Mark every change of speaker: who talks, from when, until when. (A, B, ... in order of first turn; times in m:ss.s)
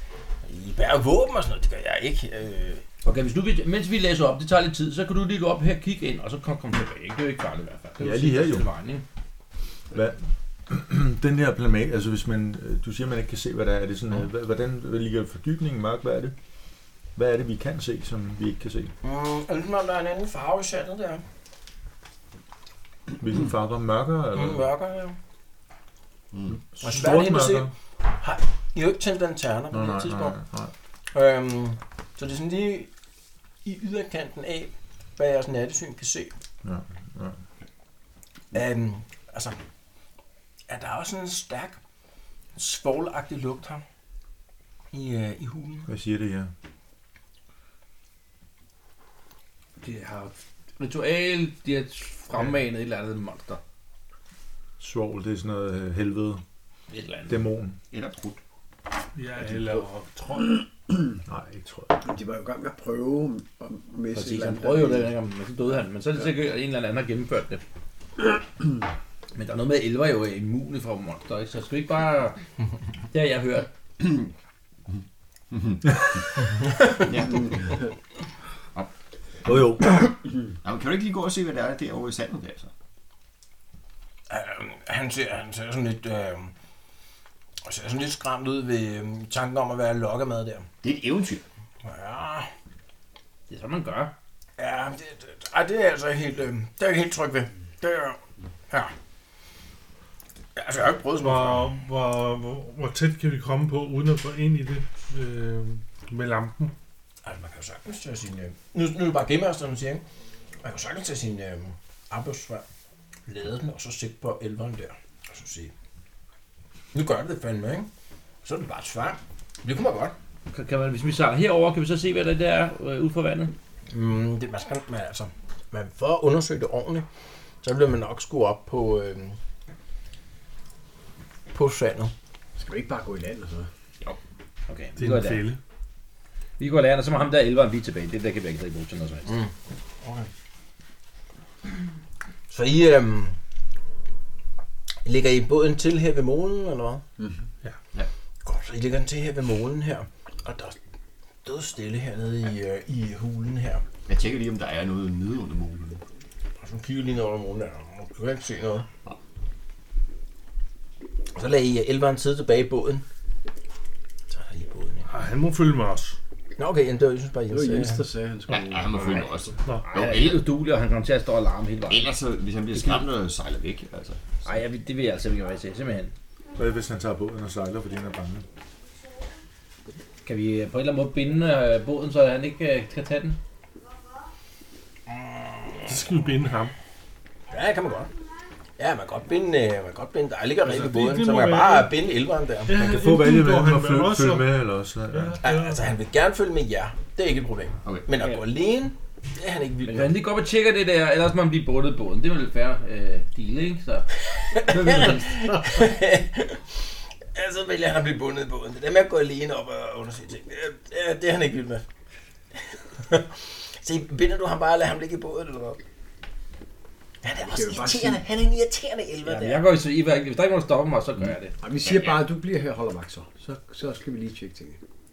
0:00.4-0:02.8 A
0:03.0-0:09.0 B
0:08.0-0:08.7 C
0:09.9-0:16.4 C
0:17.2-0:18.9 C
0:19.0-0:21.2 A
0:23.2-0:24.7 C
0:24.4-0:25.2 A
0:26.3-0:26.6 D
0:26.7-0:27.7 C
0:26.8-0:30.4 A
0:29.7-0:30.7 C
0:31.1-0:32.9 A
0:33.6-0:36.4 A
0:36.6-0:37.4 C
0:38.5-0:39.6 A
0:40.7-0:41.8 A
0:42.6-0:43.8 A
0:44.9-0:45.9 A
0:45.9-0:46.5 C
0:49.8-0:53.6 B
0:54.8-0:56.4 C
0:56.9-0:57.4 B
0:57.3-0:57.8 C
0:57.9-0:58.4 D
0:59.2-1:00.6 E
1:01.2-1:02.0 C
1:02.0-1:05.1 F
1:04.1-1:07.6 B
1:09.4-1:12.4 B
1:13.1-1:13.7 B
1:15.5-1:16.4 D
1:16.9-1:17.7 D
1:19.4-1:20.1 C
1:20.6-1:22.7 D
1:24.3-1:26.5 A
1:27.6-1:30.7 A
1:30.8-1:31.4 D
1:31.8-1:32.5 A
1:33.5-1:34.2 B
1:34.6-1:38.2 A
1:40.6-1:41.7 A
1:41.2-1:46.7 E
1:47.2-1:50.0 A
1:50.6-1:52.6 A
1:53.3-1:55.7 A
1:56.9-1:57.9 A
1:58.4-2:00.2 A
2:00.5-2:03.6 B
2:03.9-2:07.1 A
2:07.6-2:09.4 A
2:11.5-2:12.1 A
2:12.6-2:13.7 F
2:14.7-2:15.5 B
2:15.0-2:15.6 E
2:16.6-2:19.3 B
2:19.3-2:20.3 A
2:22.5-2:23.4 A
2:25.0-2:27.0 A
2:28.4-2:30.8 A
2:31.4-2:33.8 A
2:34.1-2:36.0 D
2:36.6-2:38.9 A
2:41.3-2:43.0 A
2:44.3-2:45.1 A
2:45.1-2:46.2 E
2:46.6-2:48.0 A
2:47.5-2:49.5 F
2:48.5-2:50.4 D
2:49.6-2:49.9 E
2:49.9-2:52.1 B
2:51.9-2:54.4 D
2:52.7-2:53.0 B
2:54.4-2:56.1 B
2:56.6-2:58.5 C
3:00.2-3:03.4 B
3:05.1-3:05.9 A
3:05.8-3:06.8 E
3:07.5-3:08.1 A
3:08.8-3:12.7 A
3:10.6-3:11.9 E
3:12.7-3:15.9 E
3:12.7-3:15.4 C
3:15.4-3:20.2 A
3:17.8-3:18.1 D
3:19.8-3:25.7 B
3:24.5-3:31.8 A
3:33.0-3:35.8 A
3:37.2-3:39.6 A
3:37.5-3:38.2 F
3:39.2-3:41.6 B
3:41.6-3:44.8 F
3:41.8-3:42.3 D